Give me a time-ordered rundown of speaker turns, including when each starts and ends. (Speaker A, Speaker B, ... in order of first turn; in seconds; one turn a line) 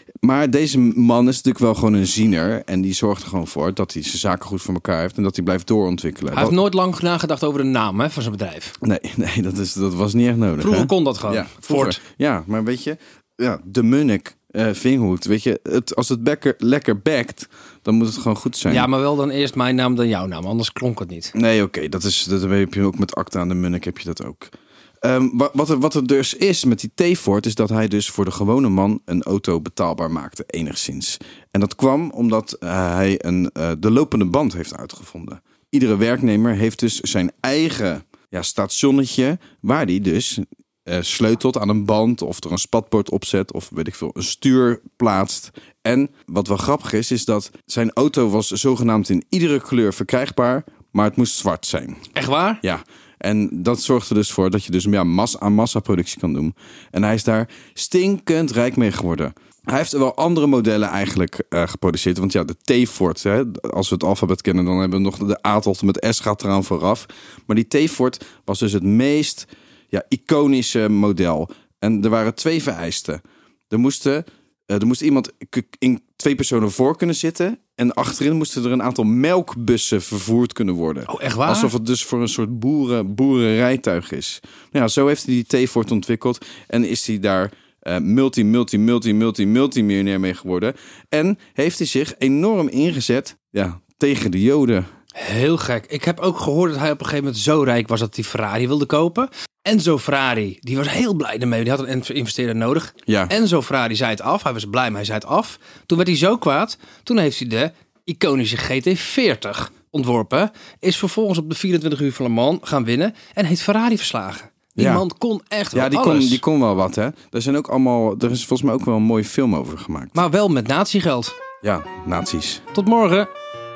Speaker A: 0.2-6.6
Speaker B: 6.3-8.8
Speaker A: 8.8-18.9
Speaker B: 10.6-12.0
Speaker B: 18.7-21.3
Speaker A: 21.3-52.1
Speaker B: 52.2-52.6
Speaker A: 52.6-94.9
Speaker B: 81.1-81.7
Speaker B: 95.2-116.4
Speaker A: 103.1-103.3
Speaker A: 114.8-115.0
Speaker A: 115.7-120.2
Speaker B: 120.1-121.3
Speaker A: 121.6-122.7
Speaker B: 122.7-123.3